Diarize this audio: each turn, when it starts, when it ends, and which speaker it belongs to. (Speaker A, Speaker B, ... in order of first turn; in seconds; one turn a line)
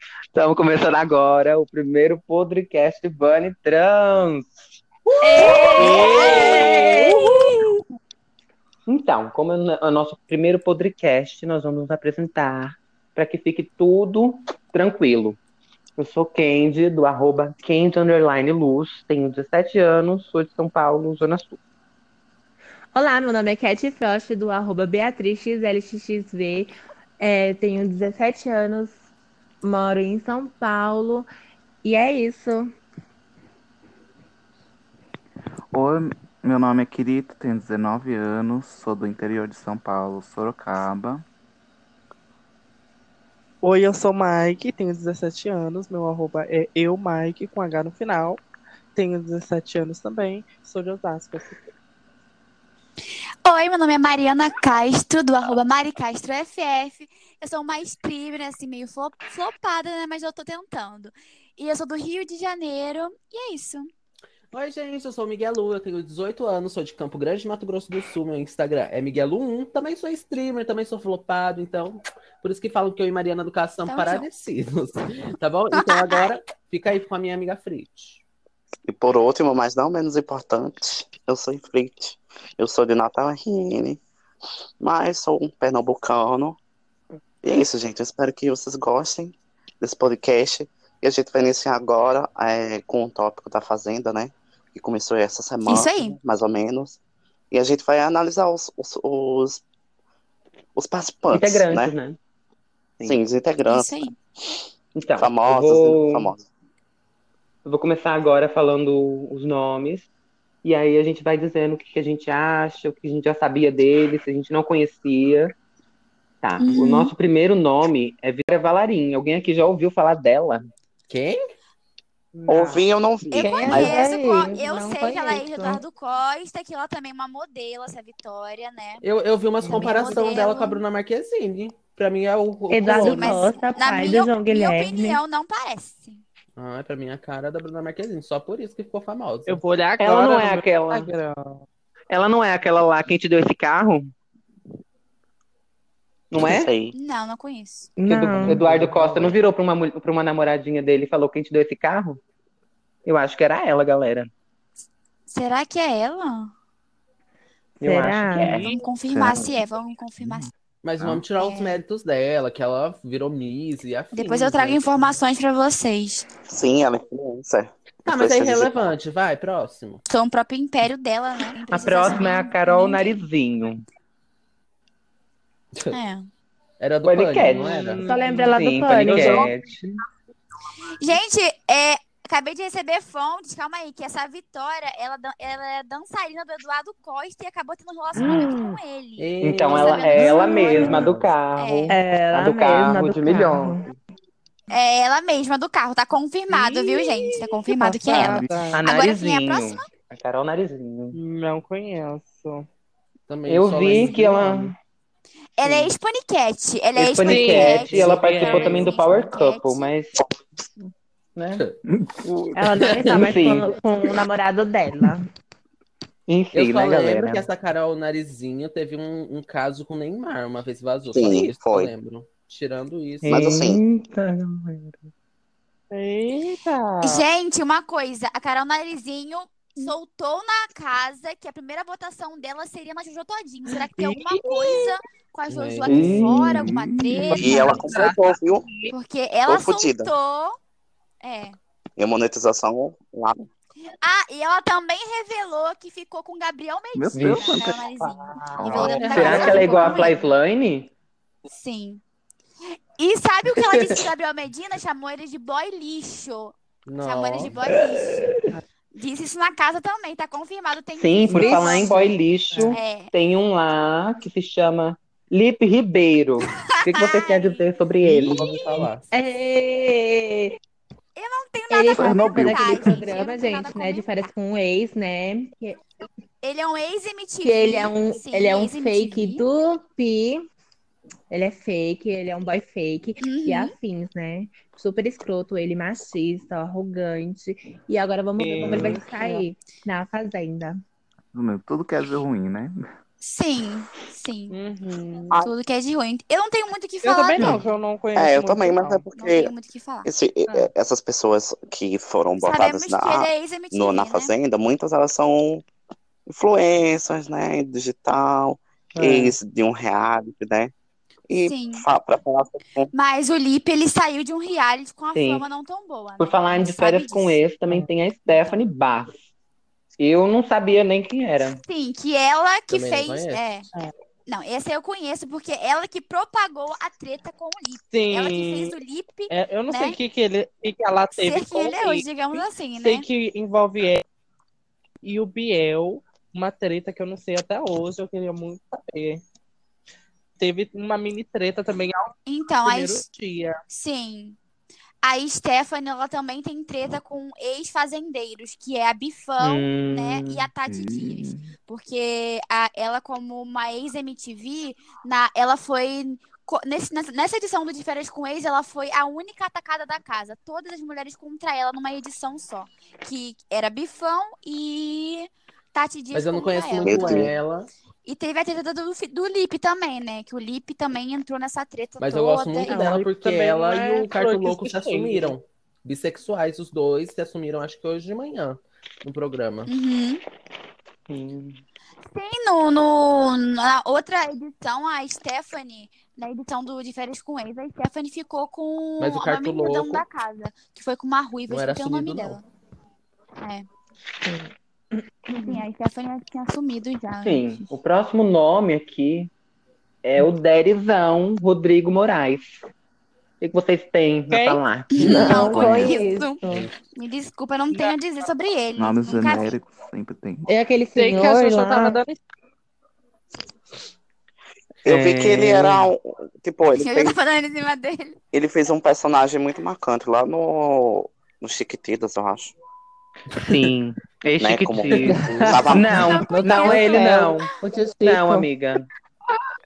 Speaker A: 0.3-4.5
Speaker B: 5.2-6.9
Speaker C: 5.2-7.2
Speaker D: 5.4-7.6
Speaker E: 5.8-6.7
Speaker A: 5.9-6.6
Speaker A: 8.9-15.4
Speaker A: 16.0-21.6
Speaker C: 22.9-29.0
Speaker C: 29.6-31.3
Speaker C: 31.8-32.7
Speaker F: 35.7-41.2
Speaker D: 43.6-48.4
Speaker D: 49.0-51.6
Speaker E: 53.5-63.9
Speaker B: 64.5-78.2
Speaker E: 73.9-74.3
Speaker E: 75.7-76.3
Speaker G: 78.9-84.0
Speaker G: 84.8-86.6
Speaker G: 87.4-97.0
Speaker E: 95.7-96.2
Speaker G: 97.5-99.6
Speaker G: 100.8-101.9
Speaker A: 101.3-102.2
Speaker G: 103.0-104.1
Speaker E: 103.7-104.1
Speaker A: 105.0-106.3
Speaker G: 105.2-106.5
Speaker A: 107.6-110.1
Speaker A: 110.6-115.5
Speaker A: 116.4-120.7
Speaker E: 116.6-117.1
Speaker B: 121.1-121.5
Speaker D: 122.3-122.8
Speaker G: 122.5-124.1
Speaker E: 123.3-129.0
Speaker C: 123.4-125.8
Speaker B: 129.0-133.5
Speaker E: 129.7-130.8
Speaker C: 129.7-129.9
Speaker C: 132.7-135.2
Speaker E: 132.8-136.2
Speaker B: 136.6-139.6
Speaker D: 139.5-141.6
Speaker A: 140.0-141.1
Speaker A: 142.1-144.1
Speaker A: 146.3-146.7
Speaker G: 146.4-146.9
Speaker E: 146.9-147.9
Speaker C: 148.0-148.7
Speaker A: 148.1-152.2
Speaker B: 148.5-149.4
Speaker A: 153.1-154.3
Speaker E: 155.3-156.5
Speaker A: 157.8-158.7
Speaker C: 157.8-158.6
Speaker D: 158.4-158.9
Speaker E: 158.6-160.5
Speaker F: 159.1-159.6
Speaker F: 160.2-160.5
Speaker B: 160.8-165.2
Speaker E: 161.4-161.8
Speaker E: 164.1-166.3
Speaker G: 166.5-169.0
Speaker B: 168.0-170.0
Speaker E: 170.1-173.2
Speaker C: 171.7-172.2
Speaker A: 171.7-173.8
Speaker E: 175.9-176.3
Speaker B: 176.8-178.0
Speaker A: 177.0-178.0
Speaker D: 177.4-179.5
Speaker C: 178.0-179.5
Speaker A: 178.5-179.9
Speaker E: 181.0-190.9
Speaker C: 188.2-188.7
Speaker B: 189.2-191.3
Speaker A: 189.4-193.9
Speaker E: 191.6-192.0
Speaker C: 191.9-193.9
Speaker E: 194.7-199.8
Speaker D: 196.5-198.8
Speaker A: 198.7-201.2
Speaker D: 201.1-202.7
Speaker B: 203.3-204.7
Speaker A: 203.5-204.8
Speaker E: 205.6-209.9
Speaker A: 206.9-210.2
Speaker D: 207.2-208.9
Speaker B: 207.7-208.9
Speaker A: 211.3-211.6
Speaker F: 212.0-212.8
Speaker C: 212.5-215.2
Speaker B: 212.8-213.3
Speaker A: 213.1-213.7
Speaker A: 216.3-217.5
Speaker B: 216.5-223.6
Speaker G: 221.1-221.9
Speaker A: 223.2-225.0
Speaker G: 223.2-223.8
Speaker D: 225.9-227.2
Speaker E: 227.0-237.7
Speaker D: 234.0-235.0
Speaker B: 235.5-236.4
Speaker A: 235.8-236.7
Speaker F: 236.5-237.4
Speaker D: 237.3-238.9
Speaker G: 237.3-238.6
Speaker E: 238.9-240.6
Speaker G: 239.5-240.1
Speaker E: 241.2-241.6
Speaker G: 242.0-243.5
Speaker E: 244.0-250.2
Speaker F: 246.9-247.9
Speaker A: 247.2-247.6
Speaker F: 248.6-249.7
Speaker B: 248.7-250.1
Speaker A: 248.7-250.9
Speaker E: 251.5-252.0
Speaker E: 253.0-258.4
Speaker B: 256.9-257.6
Speaker A: 258.0-258.4
Speaker E: 258.9-262.0
Speaker A: 261.0-268.9
Speaker C: 261.3-262.0
Speaker D: 261.4-261.9
Speaker D: 262.5-262.8
Speaker E: 262.7-263.1
Speaker E: 266.9-267.6
Speaker B: 268.0-269.1
Speaker C: 269.1-270.6
Speaker E: 271.1-274.3
Speaker C: 271.7-275.8
Speaker F: 271.9-272.9
Speaker E: 276.4-279.4
Speaker C: 277.4-280.5
Speaker C: 281.3-290.8
Speaker E: 283.2-283.7
Speaker D: 288.4-289.4
Speaker F: 288.6-288.9
Speaker F: 291.3-292.9
Speaker E: 293.2-294.6
Speaker D: 294.5-295.3
Speaker E: 295.4-297.6
Speaker D: 297.0-299.0
Speaker G: 298.1-299.5
Speaker E: 299.2-300.1
Speaker G: 300.0-305.6
Speaker E: 302.4-304.3
Speaker G: 306.3-310.7
Speaker A: 308.9-309.3
Speaker G: 311.3-312.9
Speaker E: 311.4-311.8
Speaker E: 312.9-317.4
Speaker A: 315.1-315.4
Speaker A: 316.2-319.2
Speaker A: 320.0-321.6
Speaker E: 321.7-323.7
Speaker B: 322.7-323.6
Speaker E: 324.3-330.0
Speaker D: 327.9-328.7
Speaker D: 329.3-334.0
Speaker E: 331.1-333.0
Speaker D: 335.0-339.2
Speaker D: 340.4-343.6
Speaker E: 342.3-343.0
Speaker E: 343.7-344.4
Speaker E: 345.0-367.3
Speaker A: 349.4-350.5
Speaker F: 350.6-351.5
Speaker B: 366.1-367.7
Speaker G: 366.8-367.3
Speaker E: 368.0-373.0
Speaker B: 372.0-379.7
Speaker D: 372.6-375.3
Speaker E: 379.7-380.2
Speaker A: 381.1-381.6
Speaker E: 382.1-392.4
Speaker B: 389.0-390.0
Speaker B: 391.5-392.4
Speaker E: 393.4-393.6
Speaker C: 394.2-395.6
Speaker E: 395.3-397.6
Speaker A: 397.2-399.3
Speaker A: 400.0-402.6
Speaker A: 403.4-405.0
Speaker D: 404.3-404.6
Speaker E: 404.9-409.6
Speaker B: 405.0-405.5
Speaker C: 405.0-406.7
Speaker F: 405.5-406.0
Speaker B: 406.4-406.7
Speaker F: 408.8-410.4
Speaker C: 410.5-412.0
Speaker D: 410.9-412.2
Speaker G: 414.8-417.2
Speaker A: 414.8-415.9
Speaker E: 416.8-418.2
Speaker G: 418.3-422.5
Speaker A: 423.4-427.5
Speaker G: 424.4-426.1
Speaker C: 426.2-428.5
Speaker E: 426.5-427.1
Speaker A: 428.0-428.9